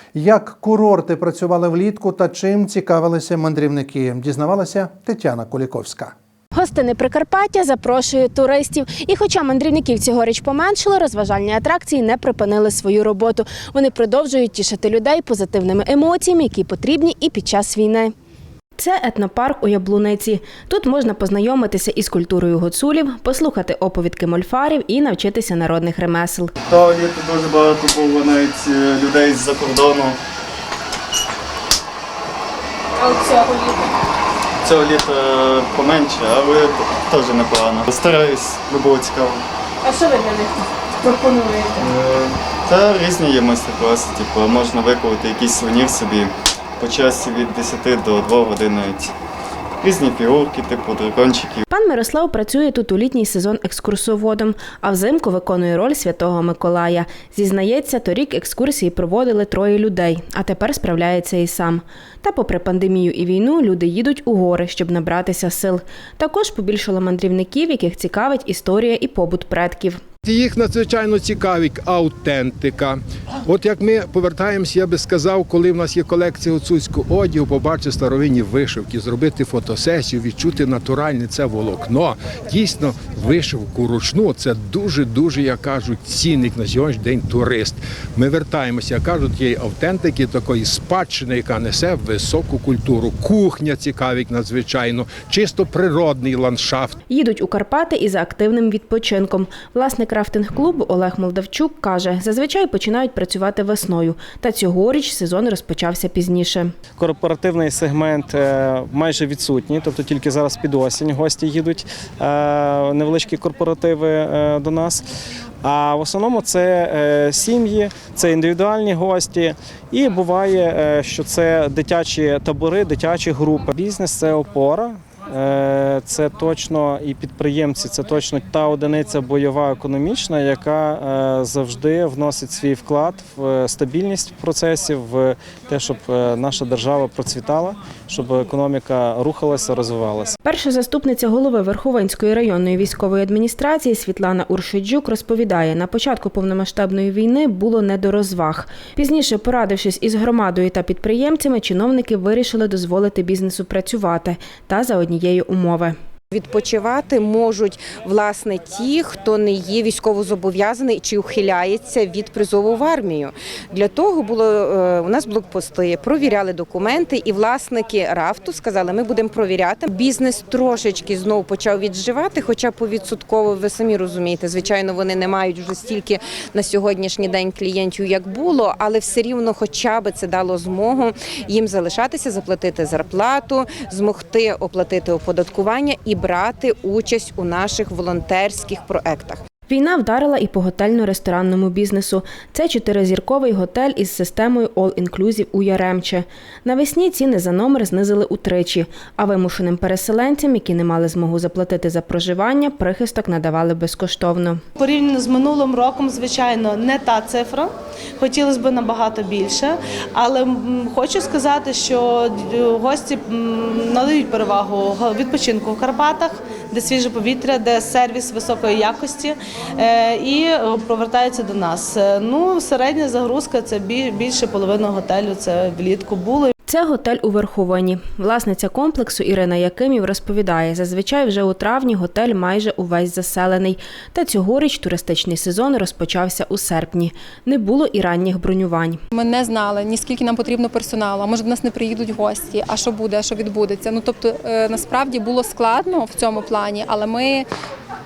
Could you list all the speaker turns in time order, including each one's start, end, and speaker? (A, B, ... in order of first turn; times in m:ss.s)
0:00.1-0:06.1 A
0:06.5-0:18.1 B
0:18.8-0:26.5 B
0:26.6-0:30.2 C
0:34.6-0:39.4 C
0:41.8-0:49.1 C
0:49.8-0:51.6 C
0:51.7-1:10.0 B
1:10.2-1:37.0 D
1:37.1-1:46.7 B
1:46.9-1:55.1 E
1:55.6-2:20.4 E
2:20.4-2:35.9 B
2:36.3-3:09.4 F
3:09.7-3:24.6 B
3:24.8-3:46.5 G
3:46.7-3:59.0 B
3:59.1-4:07.4 H